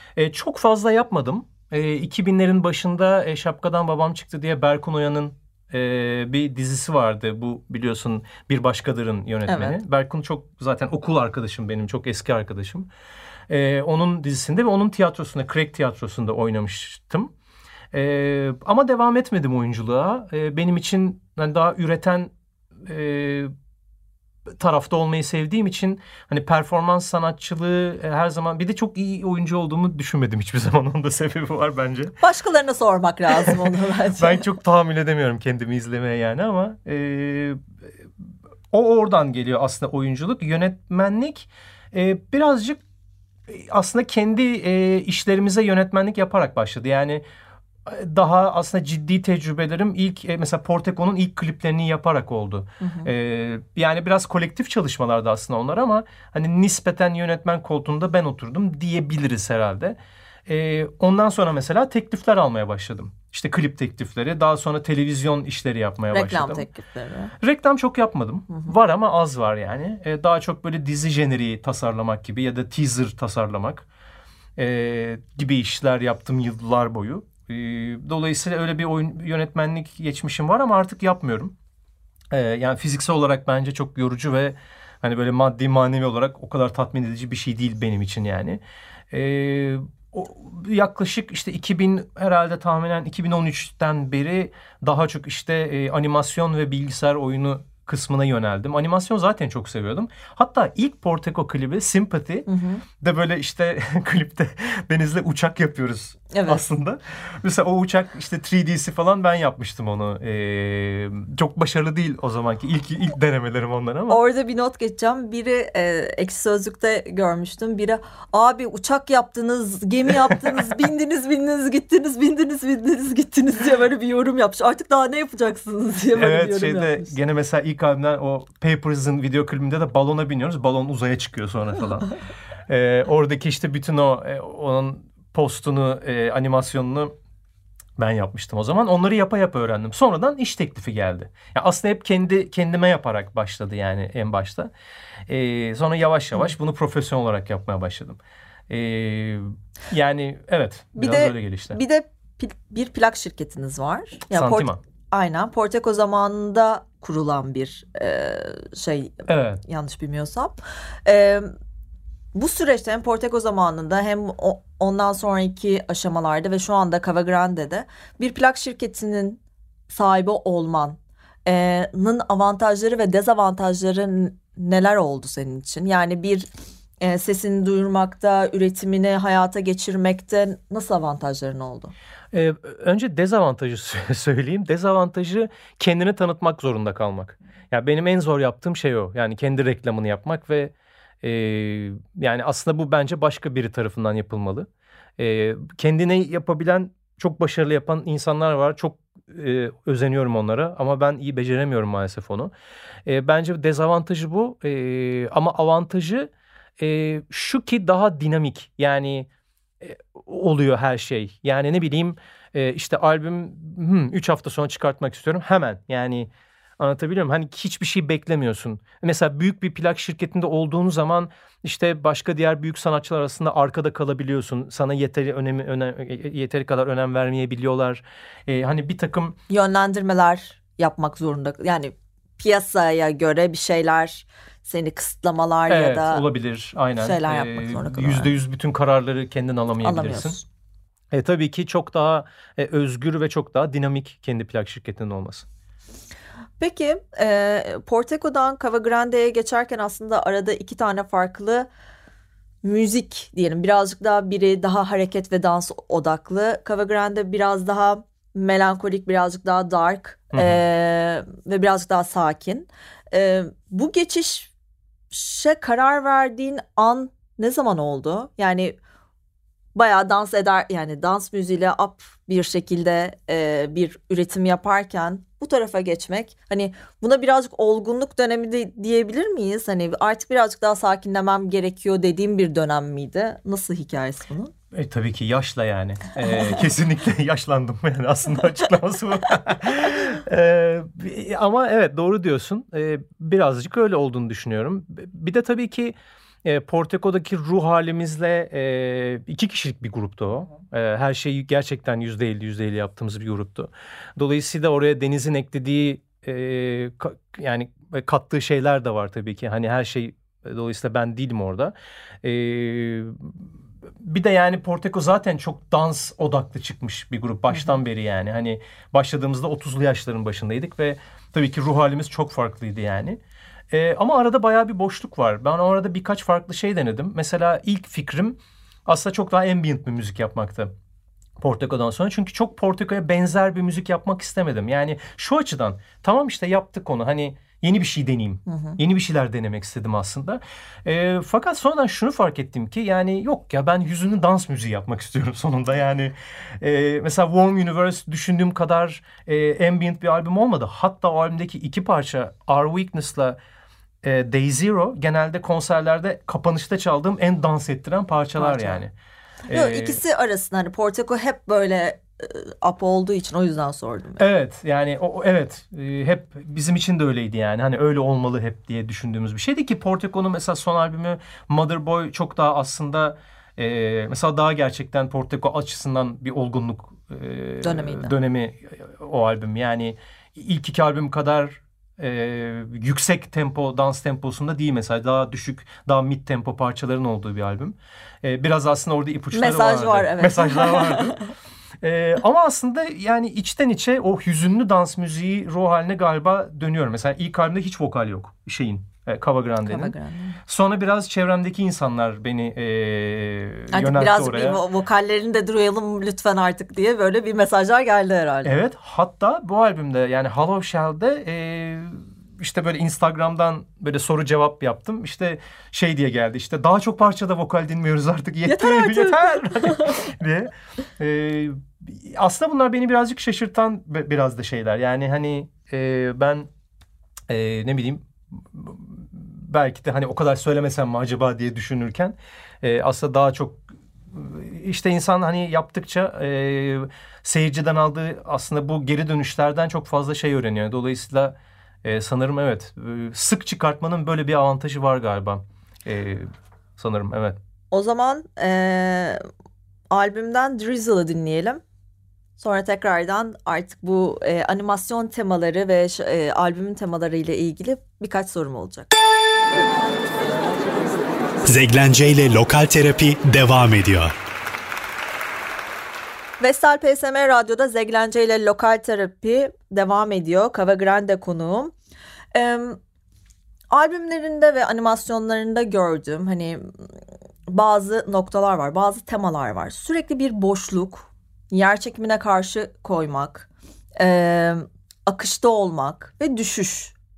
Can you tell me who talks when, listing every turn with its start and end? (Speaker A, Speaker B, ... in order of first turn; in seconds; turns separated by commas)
Speaker A: 0.1-12.9, Speaker B: 9.5-9.8, Speaker A: 13.5-17.3, Speaker A: 17.9-22.3, Speaker A: 22.9-23.5, Speaker A: 24.6-32.1, Speaker B: 32.2-34.4, Speaker A: 33.4-37.6, Speaker A: 38.7-42.8, Speaker A: 43.5-47.2, Speaker A: 47.9-66.7, Speaker B: 52.8-53.1, Speaker B: 66.1-67.3, Speaker A: 67.4-73.9, Speaker A: 74.6-81.5, Speaker A: 82.3-102.5, Speaker B: 102.5-102.8, Speaker A: 103.0-114.2, Speaker B: 106.3-106.6, Speaker B: 114.1-127.2, Speaker A: 126.2-132.1, Speaker A: 132.7-137.1, Speaker A: 138.0-144.7, Speaker A: 145.3-151.8, Speaker B: 151.0-161.5, Speaker A: 154.3-154.8, Speaker A: 159.3-159.6, Speaker B: 162.3-176.5, Speaker B: 177.0-181.9, Speaker A: 182.3-202.5, Speaker A: 203.1-209.3, Speaker A: 209.8-229.4, Speaker B: 229.5-236.2, Speaker A: 235.7-240.3, Speaker B: 237.0-238.3, Speaker B: 239.8-240.4, Speaker A: 241.1-245.4, Speaker B: 246.6-251.7, Speaker B: 252.6-264.5, Speaker A: 260.3-260.6, Speaker B: 265.1-268.8, Speaker B: 269.8-284.5, Speaker A: 284.7-313.4, Speaker A: 314.0-323.2, Speaker B: 317.5-317.8, Speaker A: 323.7-330.7, Speaker A: 331.4-353.4, Speaker B: 338.5-338.8, Speaker A: 354.0-358.9, Speaker B: 358.4-358.8, Speaker A: 359.5-360.0, Speaker B: 359.5-364.2, Speaker A: 364.2-391.2, Speaker B: 377.6-378.1, Speaker B: 389.3-391.2, Speaker A: 391.8-399.9, Speaker B: 399.6-400.4, Speaker A: 400.5-404.6, Speaker B: 403.7-408.6, Speaker A: 408.4-426.5, Speaker B: 418.4-420.0, Speaker A: 427.3-447.4, Speaker B: 447.7-449.2, Speaker B: 449.9-451.6, Speaker B: 452.4-458.9, Speaker C: 461.4-464.1, Speaker B: 466.4-471.7, Speaker B: 472.3-472.8, Speaker B: 473.7-476.7, Speaker B: 477.5-486.9